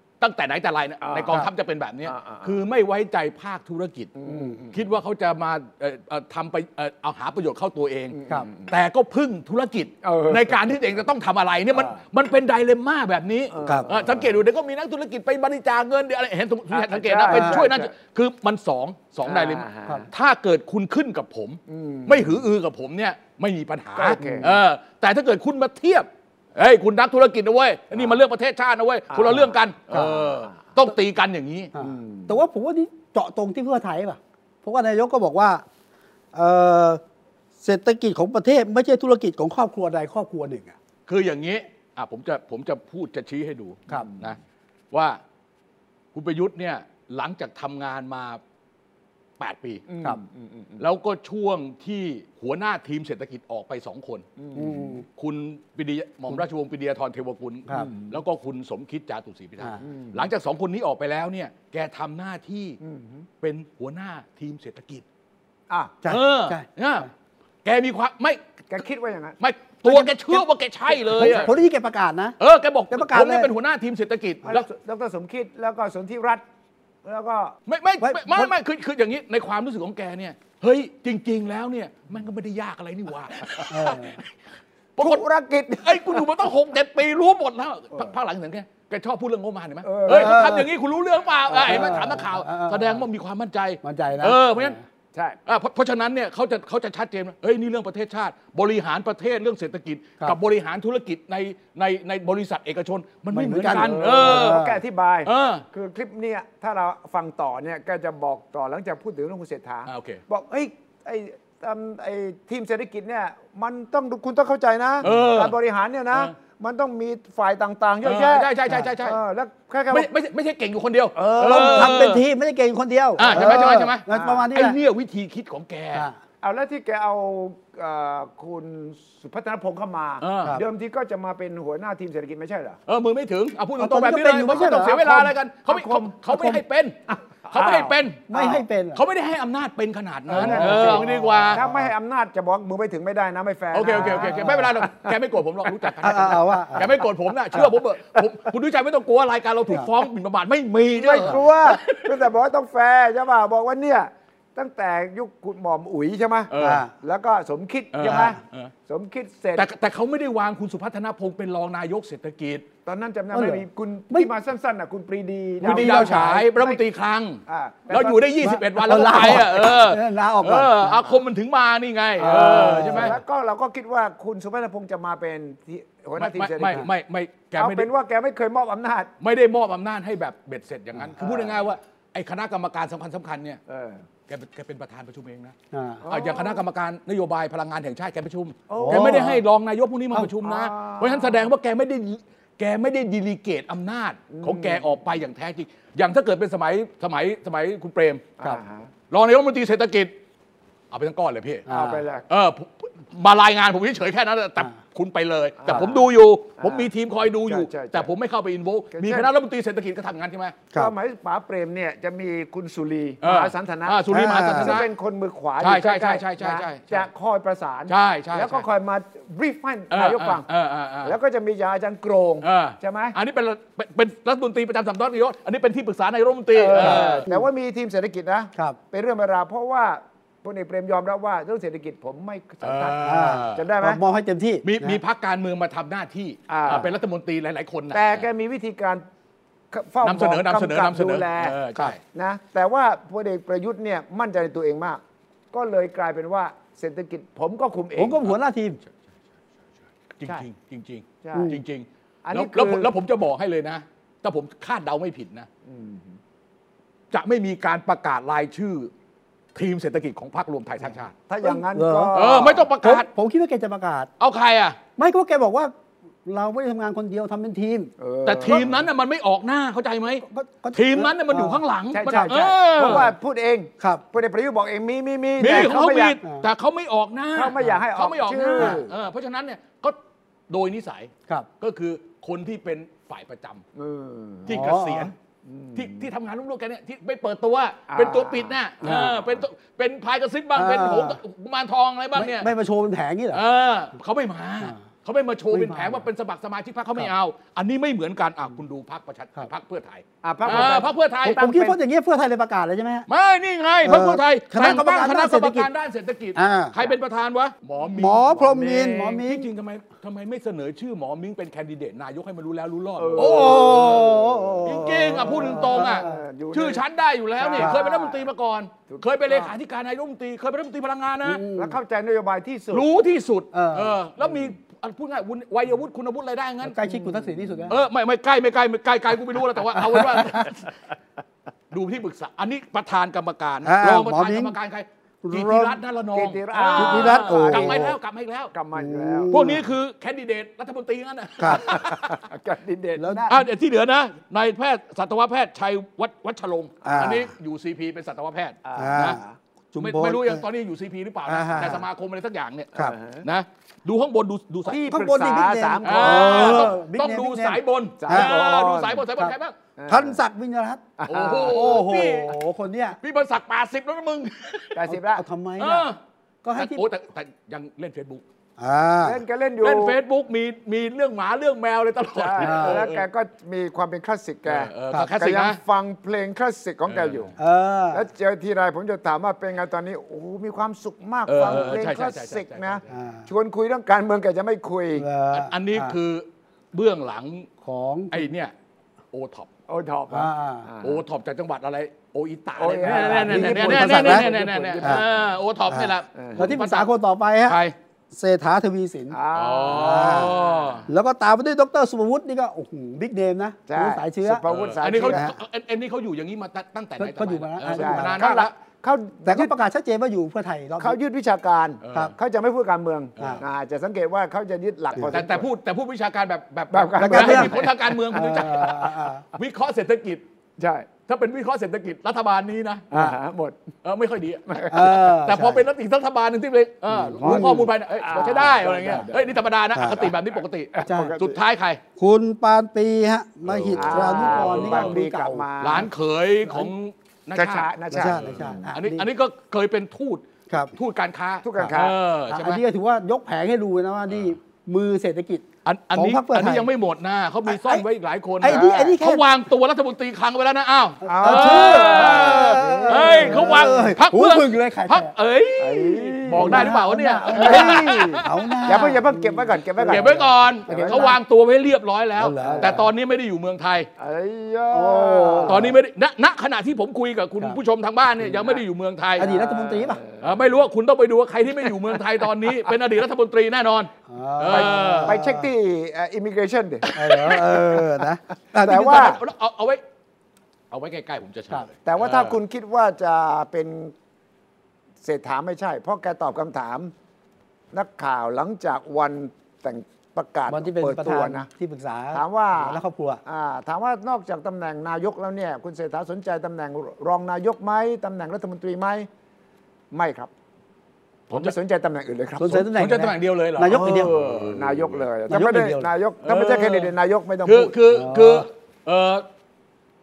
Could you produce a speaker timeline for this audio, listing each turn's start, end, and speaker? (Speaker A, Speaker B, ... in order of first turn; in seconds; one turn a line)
Speaker A: 0.2-4.2
Speaker B: 1.0-1.4
Speaker B: 2.0-2.6
Speaker B: 4.2-4.8
Speaker C: 4.3-4.5
Speaker A: 4.7-31.7
Speaker B: 8.1-8.7
Speaker B: 10.0-10.7
Speaker B: 13.5-14.4
Speaker B: 16.7-17.9
Speaker C: 17.3-17.6
Speaker B: 19.2-20.1
Speaker B: 21.7-22.4
Speaker B: 23.9-24.5
Speaker C: 24.2-24.6
Speaker B: 29.1-30.5
Speaker C: 29.9-30.2
Speaker C: 31.7-35.6
Speaker B: 31.8-32.4
Speaker C: 36.3-37.0
Speaker C: 37.6-40.7
Speaker A: 41.1-44.4
Speaker B: 43.9-44.2
Speaker A: 44.9-45.2
Speaker A: 46.1-48.4
Speaker A: 49.4-49.9
Speaker B: 49.9-50.8
Speaker A: 50.8-54.2
Speaker B: 54.4-55.0
Speaker C: 54.5-55.0
Speaker A: 55.1-62.8
Speaker B: 57.7-58.2
Speaker B: 59.8-60.3
Speaker B: 62.8-63.3
Speaker A: 63.4-65.0
Speaker B: 65.7-66.0
Speaker C: 66.0-67.1
Speaker A: 66.1-67.1
Speaker A: 67.6-68.4
Speaker B: 68.7-71.5
Speaker A: 69.4-71.5
Speaker C: 71.2-72.3
Speaker A: 72.4-74.7
Speaker C: 72.9-73.5
Speaker B: 74.5-76.4
Speaker B: 77.0-77.5
Speaker A: 77.7-84.3
Speaker C: 78.0-78.5
Speaker C: 83.7-84.2
Speaker A: 85.0-85.2
Speaker B: 85.0-86.3
Speaker A: 85.8-94.8
Speaker B: 89.8-90.6
Speaker C: 90.1-90.7
Speaker C: 91.5-93.0
Speaker C: 93.8-94.8
Speaker A: 95.5-104.6
Speaker C: 103.3-104.8
Speaker B: 103.6-120.1
Speaker A: 105.2-105.6
Speaker A: 109.8-110.2
Speaker A: 115.0-115.6
Speaker A: 118.0-119.2
Speaker A: 119.9-122.2
Speaker B: 121.2-122.1
Speaker C: 121.4-124.8
Speaker A: 123.2-126.1
Speaker B: 123.2-124.5
Speaker B: 126.4-132.8
Speaker A: 130.2-130.6
Speaker A: 132.9-136.9
Speaker C: 133.8-135.2
Speaker B: 134.5-136.1
Speaker C: 136.3-136.6
Speaker B: 137.1-138.6
Speaker A: 137.5-138.3
Speaker C: 138.3-139.0
Speaker A: 138.9-141.6
Speaker B: 140.3-145.1
Speaker C: 140.3-141.9
Speaker A: 143.7-152.2
Speaker C: 143.9-144.7
Speaker C: 146.0-146.9
Speaker B: 150.9-159.7
Speaker A: 156.5-156.8
Speaker C: 156.6-156.9
Speaker A: 157.9-158.7
Speaker C: 158.0-158.3
Speaker A: 159.6-162.7
Speaker B: 162.8-166.8
Speaker C: 163.3-164.3
Speaker C: 165.6-166.3
Speaker A: 165.6-173.2
Speaker B: 167.5-168.4
Speaker C: 168.4-171.0
Speaker C: 172.2-173.2
Speaker B: 172.2-176.9
Speaker A: 176.2-177.9
Speaker B: 177.6-179.1
Speaker A: 179.2-183.6
Speaker B: 181.2-181.6
Speaker B: 183.7-184.0
Speaker A: 184.3-185.5
Speaker C: 185.7-186.0
Speaker B: 186.0-186.6
Speaker A: 186.1-198.3
Speaker B: 188.7-189.3
Speaker C: 188.8-189.4
Speaker B: 190.4-191.4
Speaker B: 194.3-194.9
Speaker B: 198.4-198.9
Speaker A: 199.1-200.1
Speaker A: 200.9-201.7
Speaker C: 201.7-202.0
Speaker B: 201.7-202.2
Speaker A: 202.3-210.6
Speaker B: 205.6-206.9
Speaker B: 207.5-208.1
Speaker B: 208.9-209.3
Speaker B: 210.7-220.4
Speaker A: 213.2-214.9
Speaker C: 214.1-214.7
Speaker A: 215.6-217.1
Speaker A: 217.9-218.7
Speaker A: 219.9-221.2
Speaker B: 221.0-223.2
Speaker A: 222.4-227.2
Speaker B: 226.6-234.0
Speaker C: 226.7-227.4
Speaker A: 232.6-233.7
Speaker C: 233.0-235.0
Speaker A: 234.6-238.2
Speaker B: 236.5-236.9
Speaker B: 237.9-239.0
Speaker B: 239.7-245.0
Speaker A: 240.0-242.0
Speaker B: 245.5-248.3
Speaker C: 248.0-248.8
Speaker A: 250.2-255.5
Speaker B: 251.2-251.6
Speaker C: 251.3-251.6
Speaker B: 252.2-252.9
Speaker B: 255.7-256.2
Speaker A: 257.1-258.9
Speaker A: 259.5-261.1
Speaker B: 261.3-262.7
Speaker C: 261.4-264.1
Speaker A: 262.1-263.1
Speaker A: 264.2-264.8
Speaker C: 265.0-265.7
Speaker C: 266.2-267.9
Speaker B: 268.0-268.8
Speaker A: 268.2-273.1
Speaker C: 270.2-271.6
Speaker B: 271.9-276.2
Speaker C: 272.8-273.1
Speaker A: 275.4-280.0
Speaker B: 277.3-278.9
Speaker A: 280.5-283.6
Speaker B: 283.8-284.6
Speaker A: 284.4-285.1
Speaker C: 284.5-285.1
Speaker B: 285.4-286.1
Speaker A: 285.7-292.5
Speaker B: 287.9-289.4
Speaker C: 288.8-289.2
Speaker C: 290.6-291.2
Speaker C: 292.1-293.4
Speaker A: 293.3-301.4
Speaker C: 295.5-296.0
Speaker B: 300.2-301.8
Speaker C: 301.2-303.1
Speaker A: 303.1-308.3
Speaker C: 303.8-305.7
Speaker C: 306.3-306.7
Speaker C: 307.9-309.5
Speaker B: 308.3-309.2
Speaker A: 309.1-314.1
Speaker B: 313.0-316.8
Speaker C: 313.1-316.2
Speaker A: 314.6-321.4
Speaker B: 317.4-318.2
Speaker B: 318.9-319.5
Speaker C: 321.2-321.8
Speaker B: 321.5-322.9
Speaker A: 322.7-326.8
Speaker C: 323.5-324.0
Speaker C: 326.6-327.8
Speaker B: 326.9-327.7
Speaker A: 327.7-330.7
Speaker C: 329.8-330.5
Speaker A: 331.7-338.5
Speaker C: 333.6-334.5
Speaker C: 335.2-335.8
Speaker B: 336.1-338.0
Speaker C: 336.7-337.9
Speaker B: 338.5-339.6
Speaker C: 338.7-339.6
Speaker A: 339.3-342.2
Speaker C: 341.4-341.6
Speaker B: 341.4-343.3
Speaker C: 343.0-343.4
Speaker A: 343.3-349.2
Speaker C: 346.8-347.2
Speaker B: 346.9-347.2
Speaker B: 348.6-349.4
Speaker C: 348.8-349.2
Speaker C: 349.7-350.4
Speaker A: 349.8-354.8
Speaker C: 351.3-351.8
Speaker B: 352.8-353.2
Speaker B: 354.6-356.8
Speaker C: 354.9-358.3
Speaker A: 355.8-359.5
Speaker B: 358.0-359.0
Speaker B: 359.8-360.2
Speaker C: 359.9-360.8
Speaker B: 361.0-361.9
Speaker A: 361.1-362.3
Speaker C: 361.4-363.0
Speaker A: 363.0-364.7
Speaker B: 364.7-365.2
Speaker C: 364.9-365.9
Speaker A: 365.6-366.0
Speaker C: 366.4-366.9
Speaker A: 366.6-368.2
Speaker C: 368.6-369.2
Speaker B: 369.0-370.0
Speaker A: 369.6-373.1
Speaker B: 372.1-377.3
Speaker C: 372.4-372.8
Speaker A: 374.4-375.6
Speaker A: 376.9-377.3
Speaker C: 377.4-378.1
Speaker B: 377.9-385.1
Speaker A: 381.2-383.0
Speaker C: 381.4-381.8
Speaker C: 382.9-383.3
Speaker C: 385.0-385.9
Speaker A: 385.3-387.5
Speaker C: 387.6-388.3
Speaker A: 388.1-388.5
Speaker A: 389.1-389.5
Speaker B: 389.7-391.0
Speaker C: 390.1-390.7
Speaker A: 390.8-396.9
Speaker B: 392.6-395.3
Speaker C: 392.8-394.3
Speaker C: 395.7-397.6
Speaker B: 396.1-396.5
Speaker A: 397.4-397.7
Speaker C: 398.1-400.3
Speaker B: 399.1-400.9
Speaker A: 399.3-400.9
Speaker C: 400.9-404.4
Speaker B: 403.7-405.3
Speaker A: 404.4-408.5
Speaker C: 405.0-405.3
Speaker C: 407.0-408.2
Speaker B: 407.7-409.5
Speaker C: 409.2-411.0
Speaker B: 410.8-415.5
Speaker A: 411.8-412.1
Speaker A: 413.2-413.4
Speaker C: 414.9-415.2
Speaker A: 415.1-420.2
Speaker B: 416.7-418.6
Speaker C: 417.0-419.2
Speaker B: 420.6-420.9
Speaker A: 421.1-422.9
Speaker B: 422.9-423.6
Speaker A: 423.8-431.8
Speaker B: 424.5-425.0
Speaker C: 424.7-425.6
Speaker C: 426.9-427.7
Speaker B: 427.2-431.4
Speaker C: 429.7-430.0
Speaker C: 430.9-431.1
Speaker C: 432.0-435.4
Speaker A: 433.4-435.0
Speaker B: 433.7-435.9
Speaker A: 435.6-442.6
Speaker B: 437.3-438.7
Speaker C: 437.9-439.1
Speaker B: 441.4-441.9
Speaker C: 442.3-446.7
Speaker A: 445.6-458.9
Speaker C: 447.5-447.8
Speaker C: 448.4-449.2
Speaker B: 448.4-448.9
Speaker C: 451.0-455.1
Speaker B: 451.1-453.9
Speaker B: 455.6-456.8
Speaker C: 456.3-461.1
Speaker B: 457.3-461.2
Speaker A: 459.8-463.9
Speaker C: 462.2-462.8
Speaker B: 462.4-462.8
Speaker B: 464.0-465.8
Speaker C: 464.7-465.7
Speaker A: 465.5-469.3
Speaker B: 468.2-468.6
Speaker C: 469.2-470.0
Speaker B: 469.2-470.4
Speaker A: 470.2-475.2
Speaker B: 471.6-472.0
Speaker C: 474.1-475.5
Speaker B: 474.5-476.9
Speaker A: 476.8-477.6
Speaker C: 476.9-479.1
Speaker B: 478.5-479.2
Speaker A: 478.6-479.8
Speaker A: 480.7-482.4
Speaker B: 481.8-483.9
Speaker B: 485.0-486.9
Speaker B: 487.7-491.5
Speaker C: 490.5-493.2
Speaker B: 492.1-499.1
Speaker B: 499.9-500.3
Speaker B: 501.3-502.7
Speaker C: 502.4-504.1
Speaker A: 502.6-505.0
Speaker B: 503.8-507.7
Speaker C: 505.3-505.9
Speaker A: 506.2-509.2
Speaker C: 507.9-508.5